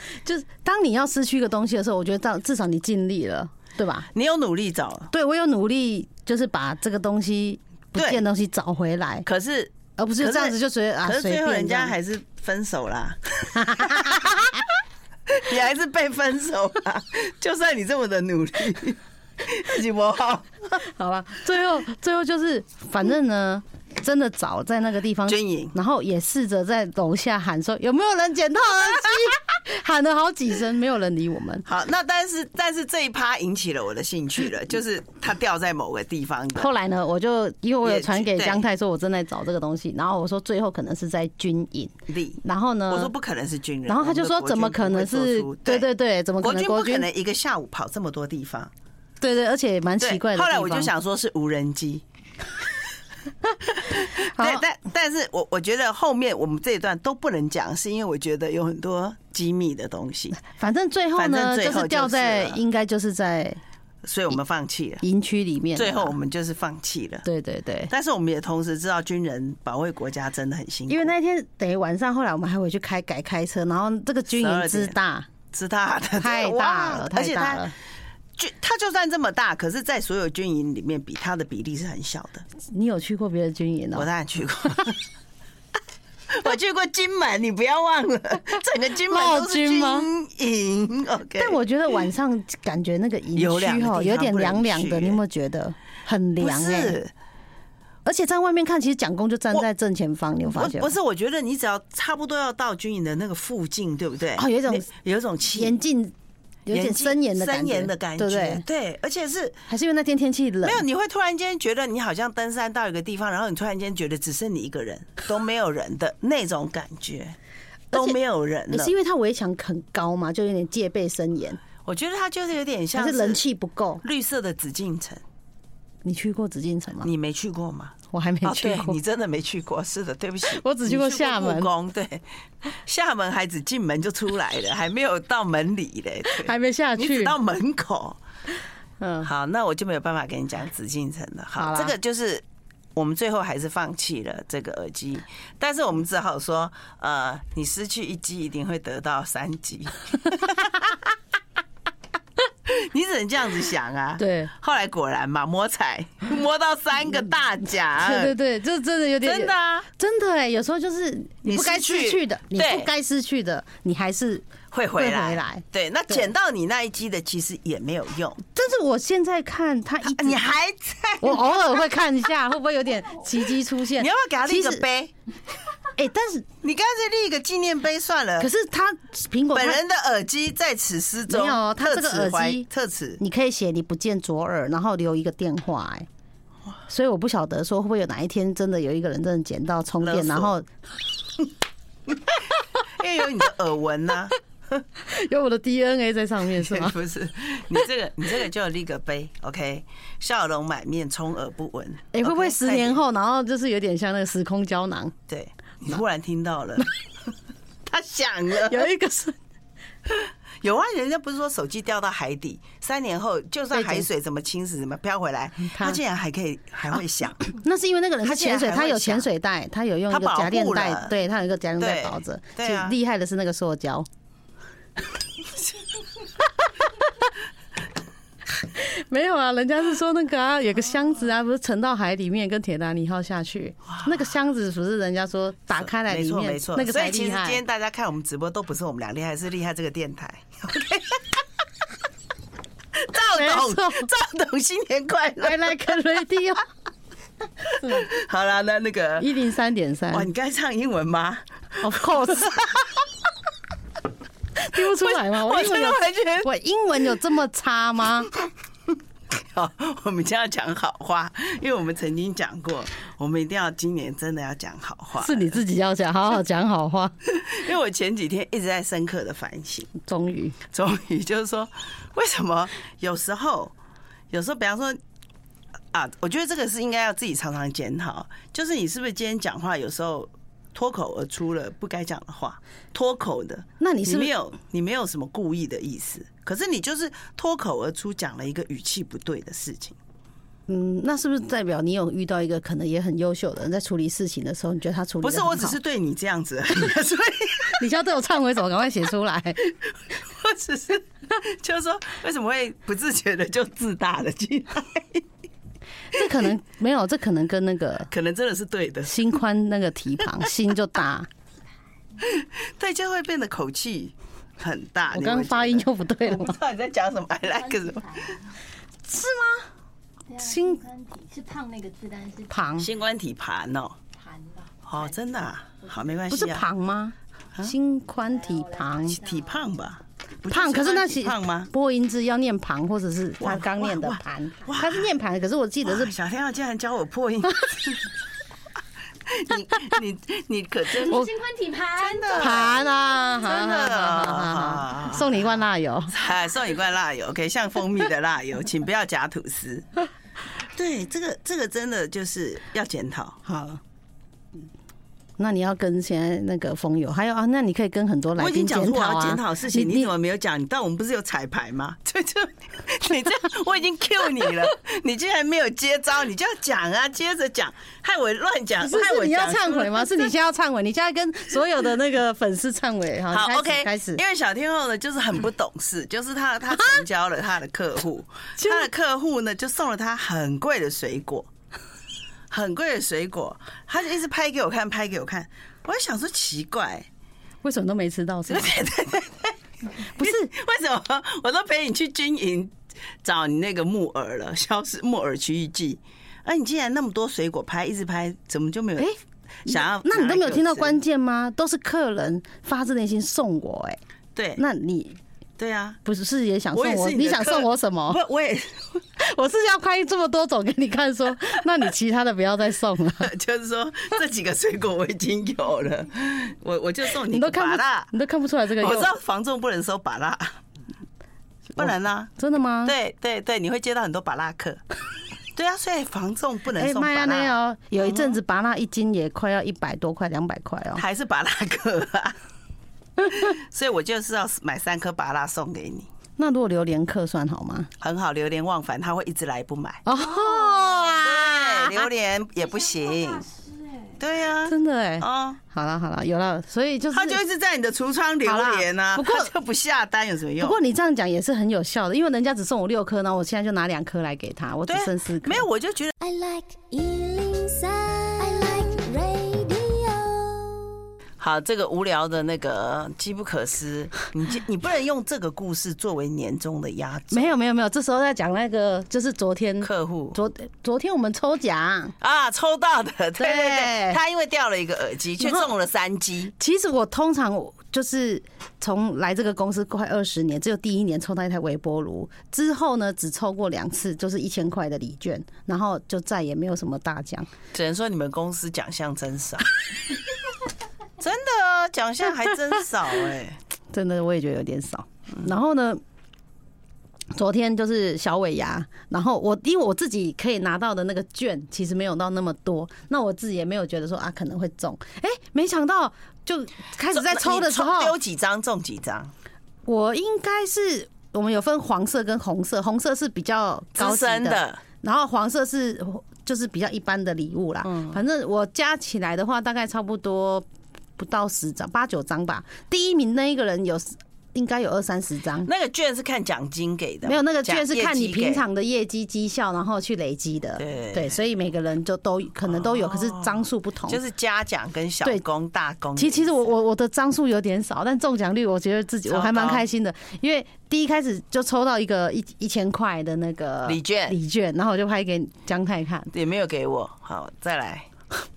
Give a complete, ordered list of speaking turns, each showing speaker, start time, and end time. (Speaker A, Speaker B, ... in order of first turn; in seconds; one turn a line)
Speaker A: 0.2-4.1
Speaker B: 4.1-5.1
Speaker A: 5.1-9.3
Speaker B: 8.0-8.2
Speaker B: 9.2-14.6
Speaker A: 10.0-11.9
Speaker A: 13.6-14.4
Speaker B: 15.3-20.6
Speaker A: 20.8-31.6
Speaker B: 25.3-25.8
Speaker B: 31.6-36.7
Speaker A: 36.6-43.1
Speaker B: 37.8-38.6
Speaker B: 42.1-45.9
Speaker A: 43.9-47.1
Speaker B: 46.4-48.7
Speaker A: 49.2-50.9
Speaker B: 50.0-52.0
Speaker B: 53.7-60.4
Speaker A: 54.0-54.6
Speaker A: 60.4-63.6
Speaker B: 61.2-62.6
Speaker B: 64.0-65.0
Speaker A: 65.0-66.2
Speaker B: 65.8-67.3
Speaker A: 67.2-67.9
Speaker B: 67.9-71.1
Speaker A: 70.9-75.3
Speaker B: 74.3-75.0
Speaker B: 75.5-77.7
Speaker A: 76.2-77.7
Speaker B: 78.4-82.5
Speaker A: 82.7-84.1
Speaker B: 84.0-85.0
Speaker B: 86.3-91.6
Speaker A: 89.1-90.1
Speaker A: 91.4-97.0
Speaker B: 93.3-95.2
Speaker B: 96.4-97.1
Speaker A: 98.0-100.9
Speaker B: 100.5-105.8
Speaker A: 104.4-104.9
Speaker A: 105.5-106.1
Speaker A: 106.7-108.6
Speaker B: 106.7-109.6
Speaker A: 109.7-110.8
Speaker B: 110.6-117.4
Speaker A: 117.9-118.2
Speaker B: 117.9-118.9
Speaker A: 118.7-121.6
Speaker B: 121.8-123.4
Speaker A: 123.0-124.0
Speaker B: 124.0-125.2
Speaker A: 126.0-127.1
Speaker B: 127.0-132.2
Speaker A: 128.1-129.0
Speaker A: 130.5-131.7
Speaker B: 132.8-138.2
Speaker A: 136.3-137.4
Speaker A: 139.0-139.3
Speaker B: 139.2-142.4
Speaker A: 141.6-141.9
Speaker B: 142.9-150.9
Speaker B: 152.7-158.3
Speaker A: 154.2-154.5
Speaker A: 158.0-166.3
Speaker B: 159.2-159.9
Speaker B: 161.4-162.9
Speaker B: 164.7-168.4
Speaker A: 168.6-170.4
Speaker B: 170.1-171.9
Speaker A: 171.2-174.8
Speaker B: 174.0-175.1
Speaker A: 176.0-176.5
Speaker B: 176.6-178.5
Speaker A: 178.4-179.8
Speaker B: 179.5-183.2
Speaker A: 181.3-182.7
Speaker A: 183.2-186.1
Speaker A: 186.9-190.7
Speaker B: 190.0-190.5
Speaker B: 192.3-194.4
Speaker A: 195.0-197.0
Speaker B: 196.5-203.0
Speaker A: 202.1-205.2
Speaker B: 205.3-206.9
Speaker B: 207.9-208.9
Speaker A: 208.6-209.4
Speaker B: 210.1-217.5
Speaker A: 213.7-214.1
Speaker A: 215.6-216.0
Speaker A: 217.6-224.1
Speaker B: 218.2-219.3
Speaker B: 220.1-221.1
Speaker B: 221.8-222.9
Speaker A: 228.6-237.6
Speaker B: 233.9-234.2
Speaker B: 235.8-241.4
Speaker B: 242.9-245.9
Speaker A: 243.2-244.1
Speaker A: 245.4-246.6
Speaker B: 247.7-249.3
Speaker A: 249.2-250.3
Speaker B: 250.1-253.0
Speaker A: 251.8-252.6
Speaker A: 254.6-258.3
Speaker B: 254.8-256.5
Speaker B: 259.3-265.6
Speaker A: 265.2-267.1
Speaker B: 267.3-269.9
Speaker A: 270.0-270.6
Speaker B: 270.7-273.7
Speaker B: 274.3-275.0
Speaker B: 275.9-290.0
Speaker A: 283.8-284.3
Speaker A: 290.7-295.8
Speaker B: 295.2-297.8
Speaker A: 297.8-299.6
Speaker B: 299.6-305.2
Speaker A: 306.1-308.1
Speaker B: 308.1-309.2
Speaker A: 309.1-311.3
Speaker B: 312.2-318.3
Speaker A: 315.1-316.6
Speaker C: 317.5-318.5
Speaker A: 319.1-319.7
Speaker C: 320.3-322.6
Speaker A: 320.4-320.8
Speaker A: 322.5-322.9
Speaker B: 322.8-324.0
Speaker C: 324.1-325.2
Speaker B: 324.9-326.7
Speaker C: 325.8-326.2
Speaker A: 326.3-329.2
Speaker C: 328.2-329.8
Speaker B: 329.2-331.7
Speaker A: 330.5-336.1
Speaker B: 333.4-335.1
Speaker B: 335.8-338.1
Speaker B: 339.3-341.2
Speaker C: 341.0-343.4
Speaker B: 342.0-342.9
Speaker A: 342.4-346.1
Speaker B: 343.4-345.5
Speaker B: 346.1-349.9
Speaker B: 350.6-353.4
Speaker A: 353.5-353.8
Speaker A: 355.4-360.1
Speaker B: 358.4-370.2
Speaker A: 368.8-374.2
Speaker B: 373.3-381.5
Speaker A: 378.6-378.9
Speaker B: 382.5-387.1
Speaker A: 387.6-388.7
Speaker B: 388.5-389.6
Speaker A: 390.2-390.5
Speaker B: 390.2-399.1
Speaker B: 399.6-401.0
Speaker A: 399.7-404.0
Speaker B: 404.4-404.6
Speaker A: 404.6-405.2
Speaker B: 405.6-406.0
Speaker A: 406.1-408.2
Speaker B: 406.7-409.0
Speaker A: 409.2-413.3
Speaker B: 413.2-418.1
Speaker A: 417.2-419.1
Speaker B: 418.8-420.6
Speaker B: 421.8-422.3
Speaker A: 421.8-422.9
Speaker B: 422.8-424.8
Speaker B: 425.6-428.4
Speaker A: 426.8-431.0
Speaker B: 431.0-432.4
Speaker B: 433.2-436.1
Speaker A: 436.4-437.9
Speaker B: 438.0-440.0
Speaker A: 440.1-442.1
Speaker C: 440.2-441.2
Speaker B: 441.2-443.4
Speaker C: 442.6-444.2
Speaker B: 444.2-445.6
Speaker A: 444.7-447.4
Speaker B: 447.1-450.8
Speaker A: 448.4-449.5
Speaker A: 450.6-455.7
Speaker B: 454.9-456.1
Speaker D: 456.2-461.0
Speaker B: 461.4-467.5
Speaker A: 467.3-472.1
Speaker B: 469.8-470.4
Speaker B: 472.2-476.5
Speaker A: 473.4-474.2
Speaker A: 475.4-475.7
Speaker A: 476.6-487.5
Speaker B: 487.7-489.7
Speaker B: 491.2-493.6
Speaker A: 493.9-496.0
Speaker A: 497.3-508.1
Speaker B: 507.1-509.3
Speaker A: 509.9-520.7
Speaker B: 514.0-514.8
Speaker B: 517.9-518.2
Speaker A: 521.2-525.7
Speaker B: 525.6-528.6
Speaker A: 527.3-534.2
Speaker B: 530.8-531.4
Speaker B: 532.7-536.6
Speaker A: 536.2-546.3
Speaker B: 539.3-539.9
Speaker B: 543.9-544.4
Speaker B: 546.3-548.1